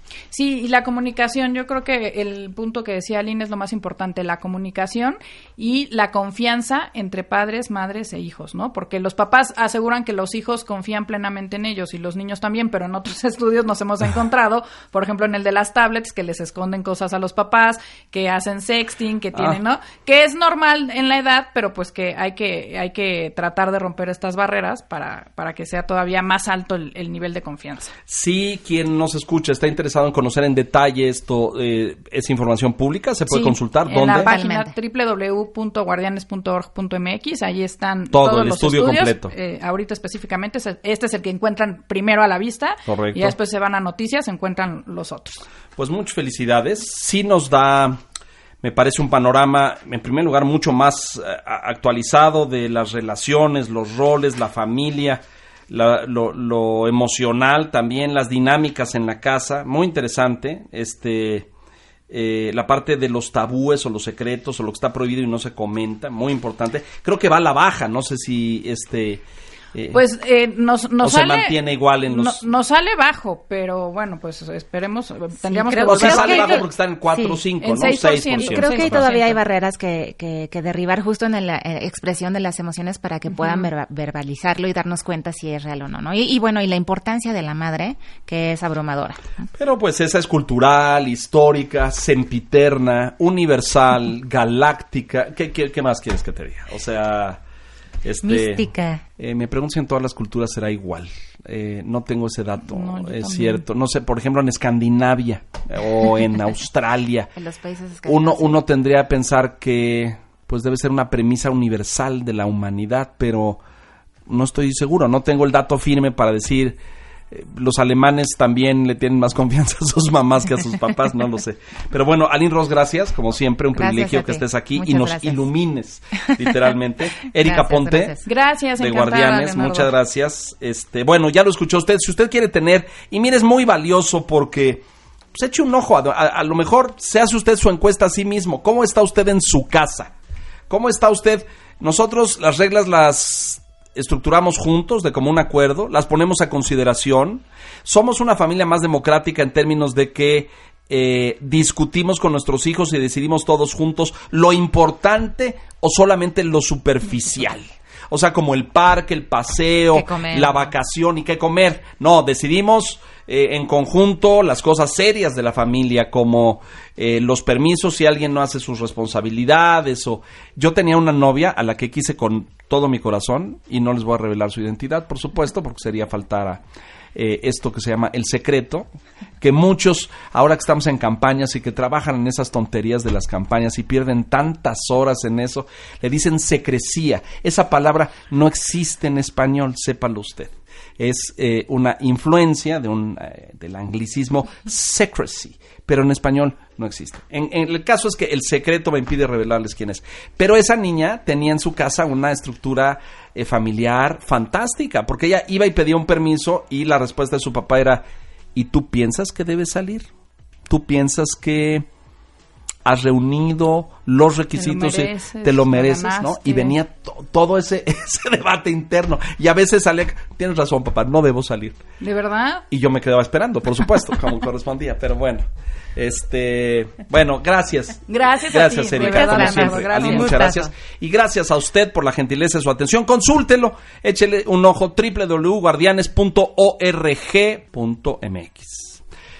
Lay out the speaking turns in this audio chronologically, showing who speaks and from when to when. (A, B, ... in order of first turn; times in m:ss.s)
0:00.3-0:27.9 A
0:19.3-0:19.6 B
0:28.1-0:34.3 B
0:33.3-0:45.4 A
0:34.1-0:34.7 C
0:38.1-0:39.3 B
0:42.9-0:43.3 B
0:45.8-0:48.0 B
0:48.6-1:01.5 B
1:02.1-1:09.2 B
1:09.7-1:10.0 B
1:09.9-1:16.6 A
1:11.0-1:12.4 B
1:15.4-1:17.4 C
1:15.9-1:19.1 B
1:17.6-1:19.4 A
1:18.4-1:29.5 C
1:23.4-1:23.6 A
1:29.5-1:37.4 B
1:38.0-1:38.7 B
1:38.2-1:39.0 C
1:39.2-1:47.3 B
1:42.6-1:43.6 A
1:47.4-1:48.6 C
1:48.0-1:53.6 B
1:54.3-1:56.8 B
1:57.3-2:08.1 B
2:03.8-2:05.5 C
2:06.2-2:06.5 C
2:07.3-2:08.3 C
2:08.2-2:09.9 A
2:08.8-2:14.8 B
2:15.3-2:20.1 B
2:20.7-2:56.6 B
2:39.9-2:40.7 C
2:57.1-2:58.9 B
2:59.4-3:28.0 B
3:28.5-3:30.1 B
3:30.7-3:31.8 B
3:32.8-3:41.8 B
3:34.6-3:36.8 A
3:42.0-3:42.6 A
3:42.7-3:59.0 B
3:48.1-3:50.6 A
3:49.0-3:50.7 C